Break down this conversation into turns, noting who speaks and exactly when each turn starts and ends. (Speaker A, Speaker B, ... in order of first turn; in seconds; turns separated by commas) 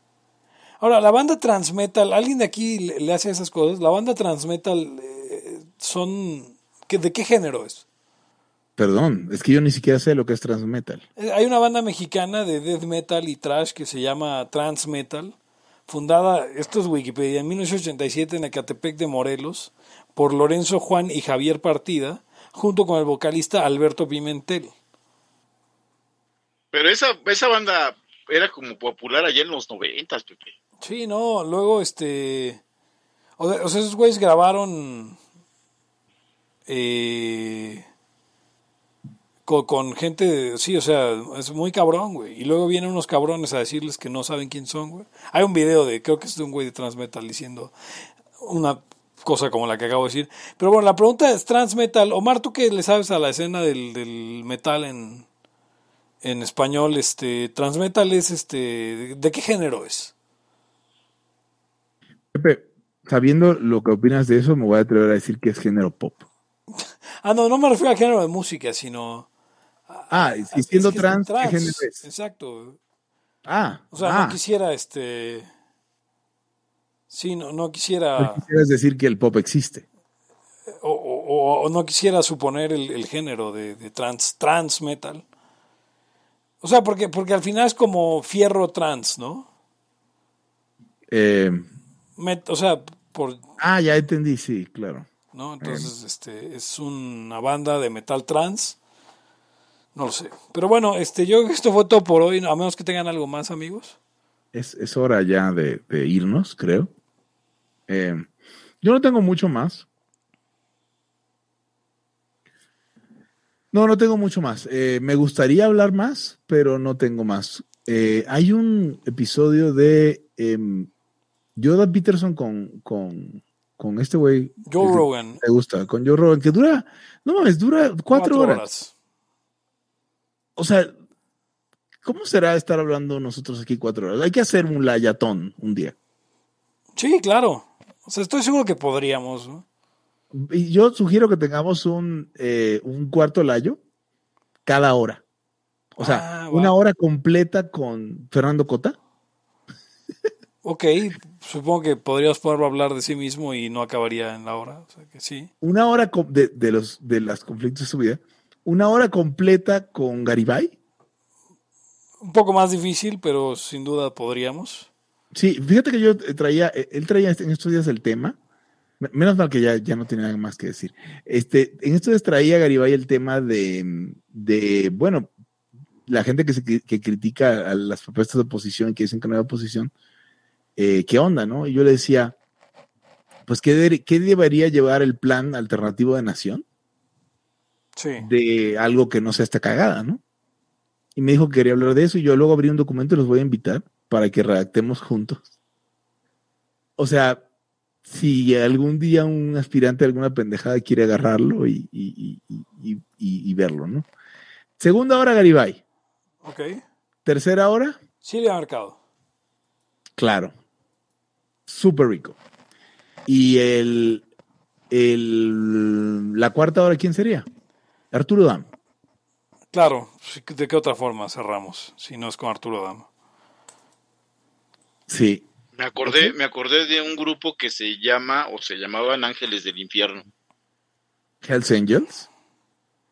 Speaker A: 0.8-7.8, Speaker B: 8.8-11.0, Speaker A: 11.2-15.3, Speaker A: 15.9-24.7, Speaker C: 26.7-30.5, Speaker A: 30.8-32.6, Speaker A: 33.4-35.2, Speaker A: 36.7-37.8, Speaker A: 39.5-47.7, Speaker A: 48.4-55.3, Speaker A: 56.2-60.1, Speaker B: 62.3-66.2, Speaker A: 66.8-69.3, Speaker A: 69.9-72.8, Speaker B: 70.1-72.0, Speaker B: 73.5-74.4, Speaker A: 73.9-75.5, Speaker A: 77.1-78.4, Speaker B: 78.2-79.8, Speaker A: 80.8-85.2, Speaker A: 86.6-89.5, Speaker B: 91.1-91.7, Speaker A: 92.2-93.4, Speaker B: 93.6-95.1, Speaker A: 95.3-98.8, Speaker B: 95.6-95.9, Speaker A: 100.0-104.0, Speaker B: 104.5-106.9, Speaker B: 107.9-108.3, Speaker B: 108.8-109.9, Speaker B: 113.7-120.9, Speaker B: 121.6-128.6, Speaker A: 124.7-125.4, Speaker A: 128.1-128.9, Speaker B: 130.6-130.9, Speaker B: 132.0-135.9, Speaker A: 137.0-139.6, Speaker B: 140.3-143.8, Speaker B: 144.7-145.2, Speaker B: 146.0-149.0, Speaker A: 146.0-146.8, Speaker A: 150.6-155.5, Speaker B: 155.6-160.8, Speaker A: 162.2-164.9, Speaker B: 165.3-168.4, Speaker B: 169.0-175.3, Speaker B: 176.1-179.9, Speaker B: 180.8-182.3, Speaker B: 183.5-186.6, Speaker A: 188.0-188.3, Speaker B: 188.2-190.2, Speaker B: 191.2-195.4, Speaker B: 197.0-197.4, Speaker B: 198.1-204.1, Speaker B: 204.8-205.8, Speaker A: 206.4-206.8, Speaker B: 207.2-208.0, Speaker A: 208.2-209.0, Speaker B: 210.2-210.5, Speaker B: 211.7-212.4, Speaker B: 213.3-214.2, Speaker B: 214.9-217.5, Speaker B: 218.1-218.7, Speaker A: 219.7-223.1, Speaker B: 225.1-225.5, Speaker C: 225.8-230.3, Speaker B: 226.1-226.3, Speaker B: 231.4-232.3